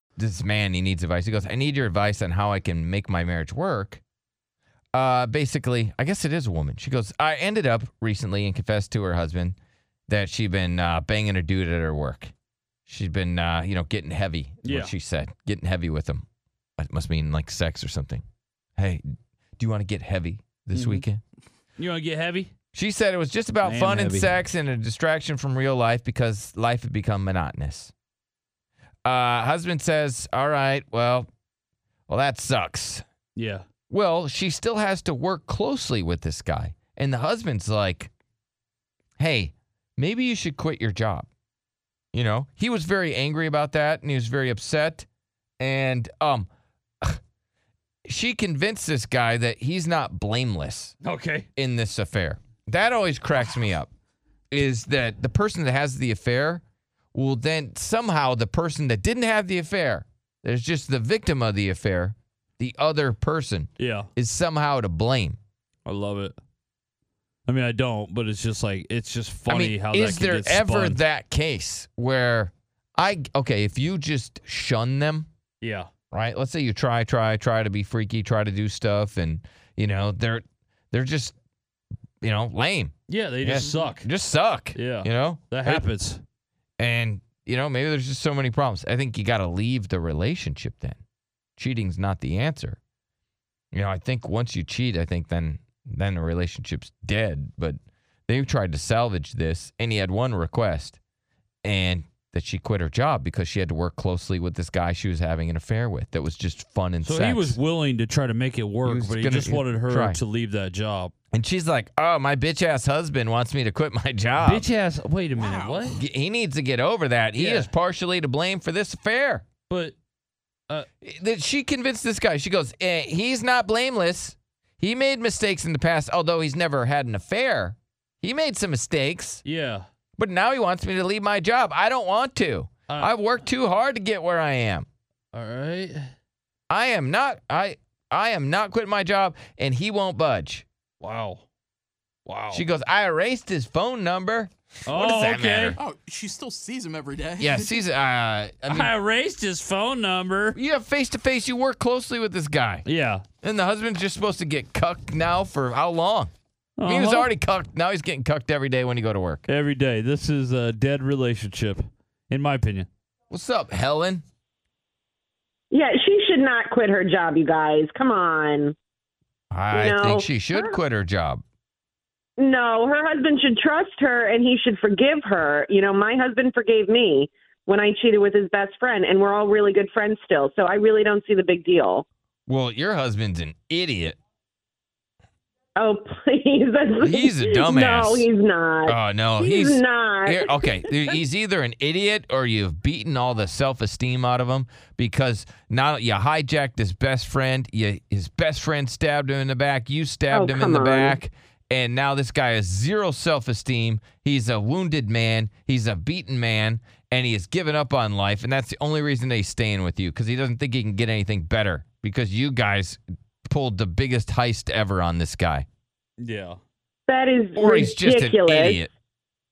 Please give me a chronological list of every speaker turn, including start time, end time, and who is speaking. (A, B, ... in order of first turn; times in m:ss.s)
0:00.2-0:04.0 A
0:04.9-0:09.6 A
0:10.1-0:12.3 A
0:12.9-0:16.2 A
0:14.6-0:14.9 B
0:16.8-0:18.2 A
0:18.8-0:19.0 A
0:19.6-0:21.2 A
0:20.7-0:21.0 B
0:21.8-0:22.5 B
0:22.7-0:27.9 A
0:23.6-0:24.3 B
0:29.0-0:31.3 A
0:32.1-0:33.0 A
0:33.4-0:33.7 B
0:33.9-0:38.1 A
0:39.2-0:41.3 A
0:42.1-0:45.1 A
0:45.6-0:46.5 A
0:48.1-0:51.0 A
0:51.0-0:51.5 B
0:51.6-0:53.9 A
0:54.5-0:56.6 A
0:57.1-1:05.4 A
1:03.8-1:04.1 B
1:05.8-1:06.4 B
1:07.5-1:11.0 B
1:09.5-1:15.3 A
1:15.6-1:15.9 B
1:16.1-1:21.4 A
1:22.2-1:25.9 A
1:23.1-1:24.1 B
1:24.7-1:26.2 B
1:26.8-1:31.0 A
1:31.6-1:32.8 A
1:33.7-1:41.0 A
1:41.6-1:47.6 A
1:47.0-1:51.1 B
1:48.8-1:50.2 A
1:51.3-1:54.7 A
1:54.4-1:56.0 B
1:55.9-1:59.5 A
1:57.4-1:57.7 B
1:59.7-2:00.0 B
2:01.0-2:09.4 A
2:09.4-2:09.9 B
2:10.2-2:14.9 A
2:15.3-2:16.1 B
2:16.7-2:20.7 A
2:21.0-2:21.4 B
2:22.2-2:22.6 B
2:22.5-2:25.8 A
2:24.9-2:25.8 B
2:25.8-2:27.7 C
2:27.4-2:28.9 A
2:28.7-2:30.6 B
2:30.5-2:32.9 A
2:32.8-2:33.3 B
2:33.4-2:36.3 A
2:36.8-2:37.3 B
2:36.9-2:39.4 A
2:39.5-2:42.9 B
2:43.3-2:44.2 A
2:45.7-2:48.8 D
2:49.5-2:51.4 A
2:49.7-2:50.8 D
2:52.4-3:02.0 D
3:02.5-3:04.2 A
3:05.8-3:11.2 D
3:07.0-3:08.3 A
3:08.9-3:35.7 A
3:20.3-3:21.2 D
3:36.2-3:36.6 B
3:37.1-3:38.8 D
3:37.6-3:38.9 A